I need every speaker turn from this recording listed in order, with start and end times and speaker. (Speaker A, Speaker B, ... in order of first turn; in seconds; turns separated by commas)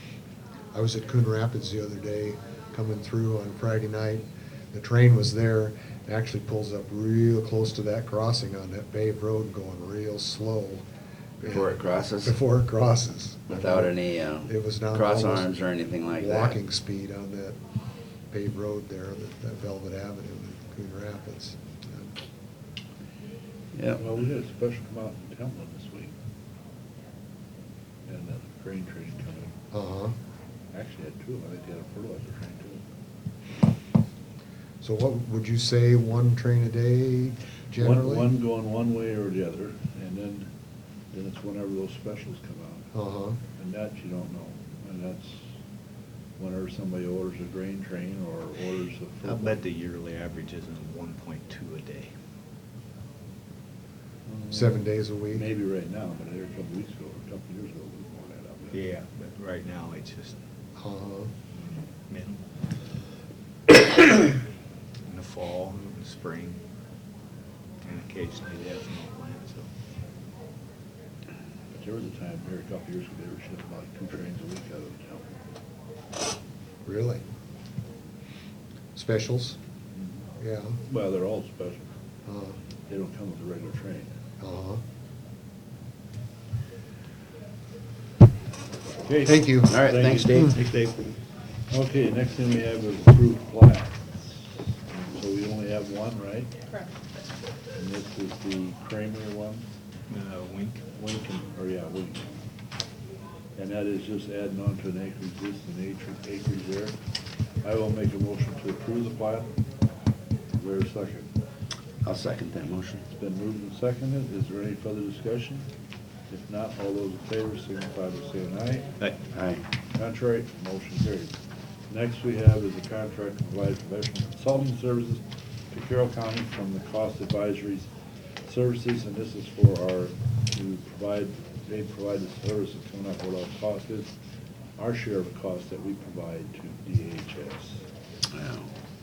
Speaker A: 0.7-10.8, Speaker A: 11.4-15.5, Speaker B: 11.5-12.4, Speaker B: 13.5-16.6, Speaker A: 16.2-17.6, Speaker A: 18.3-22.2, Speaker B: 23.7-24.0, Speaker C: 23.9-26.1, Speaker C: 28.1-29.6, Speaker A: 29.7-30.1, Speaker C: 30.7-32.8, Speaker A: 34.8-38.3, Speaker C: 37.8-40.5, Speaker C: 41.1-42.9, Speaker A: 42.9-43.4, Speaker C: 43.6-45.5, Speaker C: 46.4-49.6, Speaker D: 49.2-52.1, Speaker C: 54.3-58.8, Speaker A: 54.5-55.5, Speaker D: 58.7-60.3, Speaker A: 60.8-61.3, Speaker D: 61.5-62.4, Speaker D: 65.1-66.6, Speaker D: 67.8-69.7, Speaker C: 71.7-75.3, Speaker A: 76.9-77.2, Speaker A: 78.9-79.6, Speaker A: 80.4-80.8, Speaker C: 80.9-81.9, Speaker A: 82.2-82.6, Speaker C: 82.9-84.2, Speaker A: 84.4-84.8, Speaker C: 89.0-90.5, Speaker A: 89.2-90.5, Speaker B: 89.7-90.6, Speaker D: 90.5-91.0, Speaker C: 91.7-96.5, Speaker C: 97.8-99.6, Speaker D: 100.1-100.8, Speaker C: 100.9-102.3, Speaker C: 103.6-107.0, Speaker C: 107.6-109.5, Speaker C: 110.5-111.3, Speaker B: 112.0-113.0, Speaker C: 113.1-115.7, Speaker C: 116.3-118.9, Speaker B: 119.3-119.6, Speaker C: 119.9-121.4, Speaker C: 121.9-127.9, Speaker C: 128.4-134.1, Speaker C: 134.8-137.8, Speaker B: 138.3-138.7